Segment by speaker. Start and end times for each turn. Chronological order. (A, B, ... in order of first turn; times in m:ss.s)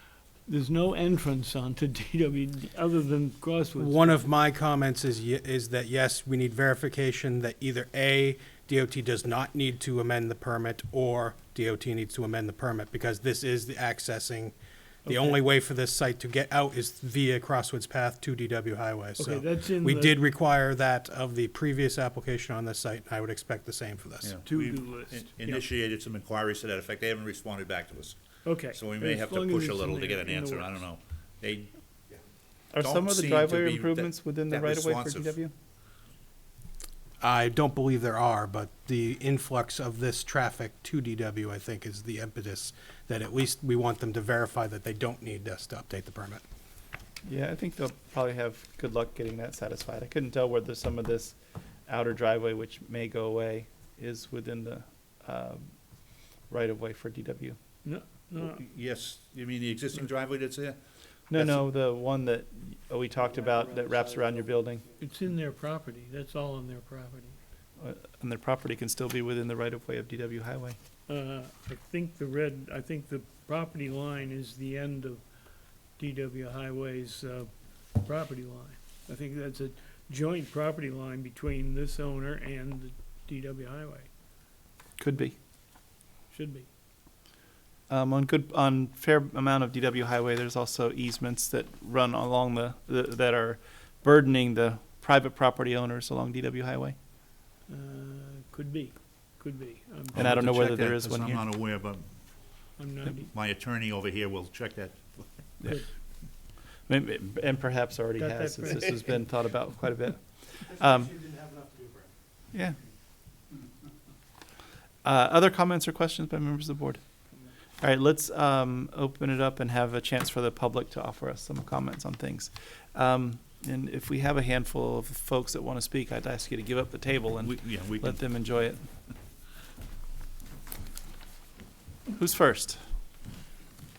0:00.5-0:04.3 A
0:03.8-0:24.4 B
0:15.1-0:15.4 A
0:19.2-0:20.3 A
0:24.2-0:31.7 C
0:24.4-0:25.6 A
0:28.4-0:30.8 A
0:32.7-0:35.5 D
0:32.8-0:35.4 C
0:37.2-0:46.4 B
0:47.2-0:55.7 D
0:56.5-0:57.6 D
0:57.8-0:58.6 A
0:58.4-1:00.8 C
1:01.3-1:04.8 D
1:01.3-1:01.6 C
1:05.0-1:07.4 A
1:07.8-1:10.8 D
1:11.1-1:15.3 A
1:15.9-1:24.1 A
1:25.0-1:25.4 D
1:26.3-1:26.7 A
1:27.9-1:37.0 D
1:37.7-1:40.3 A
1:40.1-1:41.4 D
1:40.1-1:42.1 C
1:42.8-1:43.3 A
1:43.3-1:45.5 C
1:46.9-1:51.2 D
1:48.2-1:49.2 A
1:52.5-1:52.8 D
1:55.0-1:57.0 D
1:57.8-2:08.8 D
2:07.4-2:08.2 C
2:12.1-2:12.8 D